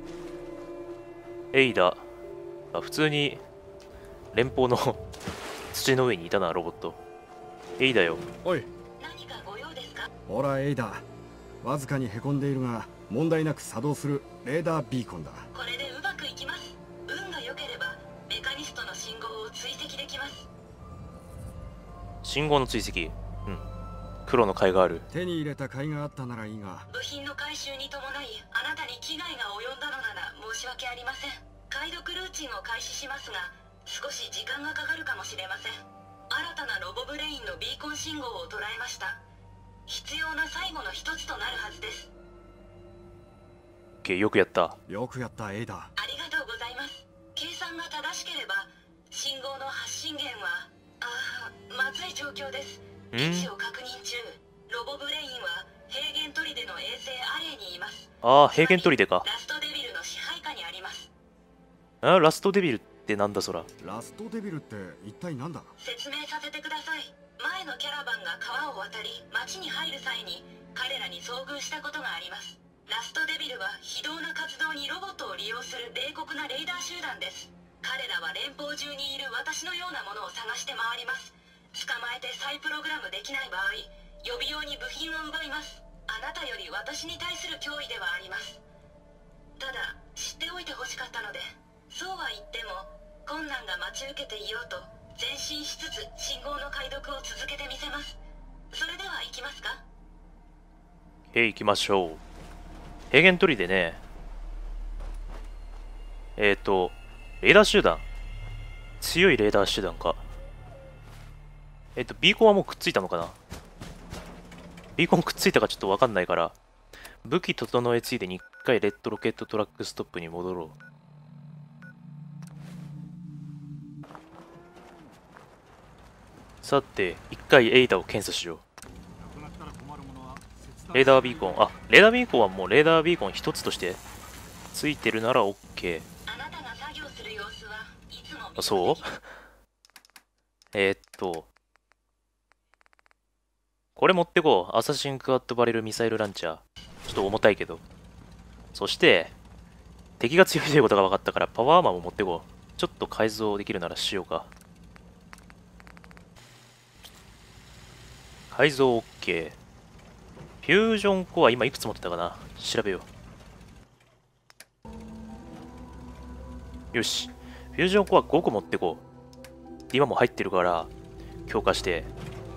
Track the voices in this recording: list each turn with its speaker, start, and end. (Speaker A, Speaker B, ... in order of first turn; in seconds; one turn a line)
Speaker A: 1.5-2.0
Speaker A: 2.7-3.4
Speaker A: 4.3-5.0
Speaker A: 5.7-7.0
Speaker A: 7.8-8.2
Speaker B: 8.4-8.7
Speaker C: 9.0-10.1
Speaker B: 10.3-11.0
Speaker B: 11.6-15.5
Speaker C: 15.5-20.5
Speaker A: 22.2-23.6
Speaker A: 24.3-25.0
Speaker B: 25.1-26.9
Speaker C: 26.9-39.2
Speaker C: 39.9-42.1
Speaker A: 44.0-44.8
Speaker B: 44.9-45.9
Speaker C: 46.0-61.1
Speaker A: 53.1-53.5
Speaker A: 58.2-59.2
Speaker A: 62.0-63.7
Speaker B: 63.8-65.7
Speaker C: 65.8-88.6
Speaker C: 89.6-98.2
Speaker C: 98.7-99.8
Speaker A: 101.3-102.2
Speaker A: 103.1-104.0
Speaker A: 106.4-108.0
Speaker A: 109.0-110.2
Speaker A: 112.0-113.4
Speaker A: 115.0-116.5
Speaker A: 117.2-120.7
Speaker A: 126.6-128.6
Speaker A: 130.9-134.0
Speaker A: 134.7-136.1
Speaker C: 136.3-139.1
Speaker A: 138.6-139.2
Speaker A: 140.7-141.5
Speaker A: 143.9-147.8
Speaker A: 148.7-149.3
Speaker A: 150.2-154.5
Speaker A: 158.5-159.6
Speaker A: 160.6-163.1
Speaker A: 166.9-169.0
Speaker A: 169.9-170.9
Speaker A: 171.5-172.1